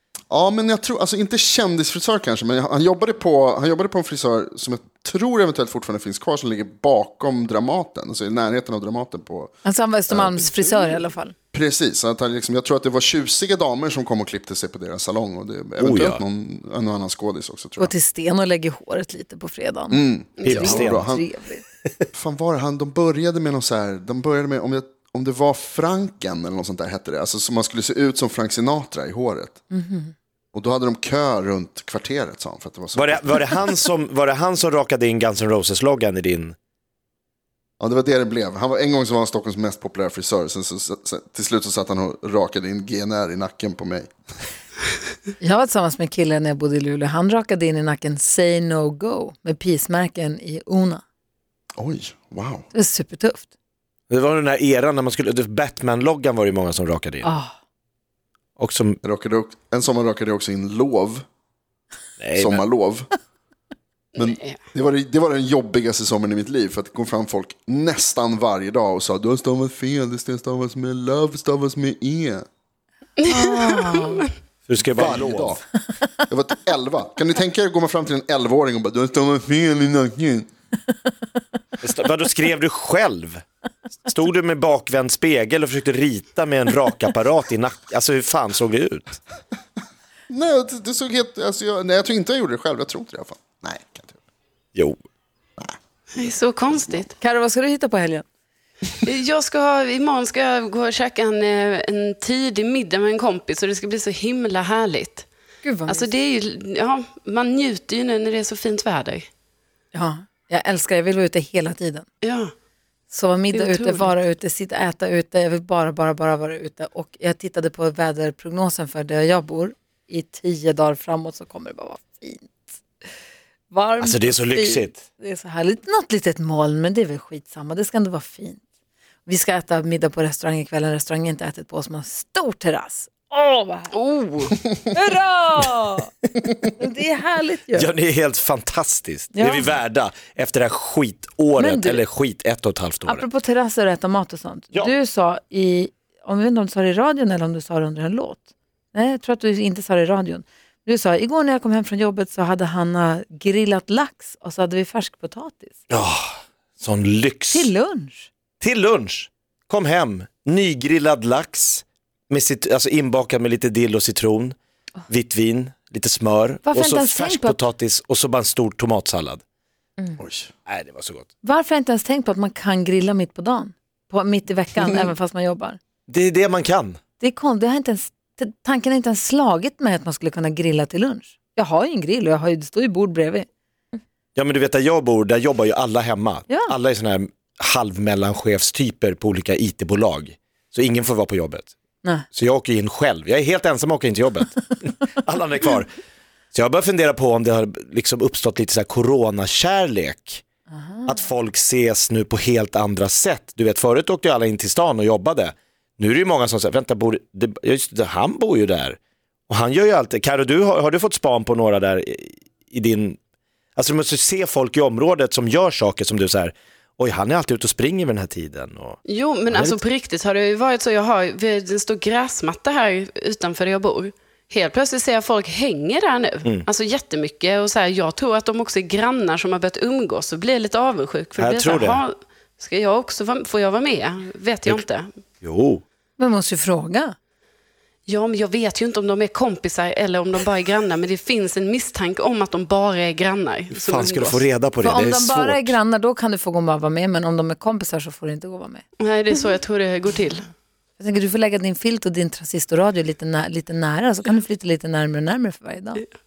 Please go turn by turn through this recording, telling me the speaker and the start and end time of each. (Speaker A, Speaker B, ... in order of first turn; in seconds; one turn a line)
Speaker A: 0.3-9.5
Speaker B: 9.6-11.3
Speaker A: 10.1-10.9
Speaker A: 11.5-17.9
Speaker C: 15.8-16.2
Speaker B: 17.8-21.6
Speaker A: 19.9-21.2
Speaker D: 20.4-20.6
Speaker C: 20.4-21.0
Speaker A: 22.1-29.6
Speaker B: 29.7-30.1
Speaker A: 30.5-33.5
Speaker C: 33.0-36.5
Speaker A: 37.8-44.1
Speaker B: 45.4-51.0
Speaker A: 51.8-52.7
Speaker B: 52.7-53.5
Speaker C: 54.1-57.3
Speaker B: 57.2-57.5
Speaker C: 58.6-59.0
Speaker A: 59.0-61.2
Speaker C: 62.2-62.6
Speaker A: 62.4-63.1
Speaker D: 64.2-64.6
Speaker A: 64.2-72.5
Speaker D: 73.2-74.2
Speaker B: 73.3-74.2
Speaker C: 74.7-75.6
Speaker A: 74.9-75.6
Speaker A: 76.3-80.5
Speaker C: 81.8-83.4
Speaker C: 84.0-89.2
Speaker A: 90.3-94.2
Speaker C: 94.8-95.0
Speaker D: 96.1-97.1
Speaker B: 97.2-98.2
Speaker D: 99.0-105.2
Speaker B: 105.6-106.1
Speaker D: 105.9-109.3
Speaker B: 109.9-112.0
Speaker D: 112.2-112.5
Speaker B: 113.1-122.6
Speaker D: 113.5-114.1
Speaker B: 123.7-128.6
Speaker C: 124.0-125.0
Speaker B: 129.2-133.9
Speaker D: 133.9-134.5
Speaker B: 134.9-136.1
Speaker B: 136.7-137.9
Speaker C: 137.8-143.2
Speaker B: 139.3-139.7
Speaker B: 141.6-142.0
Speaker B: 143.0-155.8
Speaker C: 155.9-157.7
Speaker B: 157.5-158.3
Speaker C: 158.6-164.6
Speaker C: 165.1-169.4
Speaker B: 166.7-167.6
Speaker A: 170.2-170.5
Speaker C: 170.7-171.3
Speaker B: 171.4-175.8
Speaker C: 176.1-177.0
Speaker B: 177.2-183.5
Speaker C: 184.4-191.7
Speaker C: 192.3-195.9
Speaker C: 196.5-200.4
Speaker B: 200.7-201.1
Speaker C: 201.1-209.0
Speaker C: 209.5-213.2
Speaker C: 213.8-219.8
Speaker D: 219.1-235.1
Speaker C: 231.4-232.0
Speaker C: 235.4-235.8
Speaker B: 236.2-237.1
Speaker D: 238.1-244.4
Speaker C: 243.7-245.8
Speaker B: 244.8-248.8
Speaker D: 249.0-250.4
Speaker B: 251.0-256.0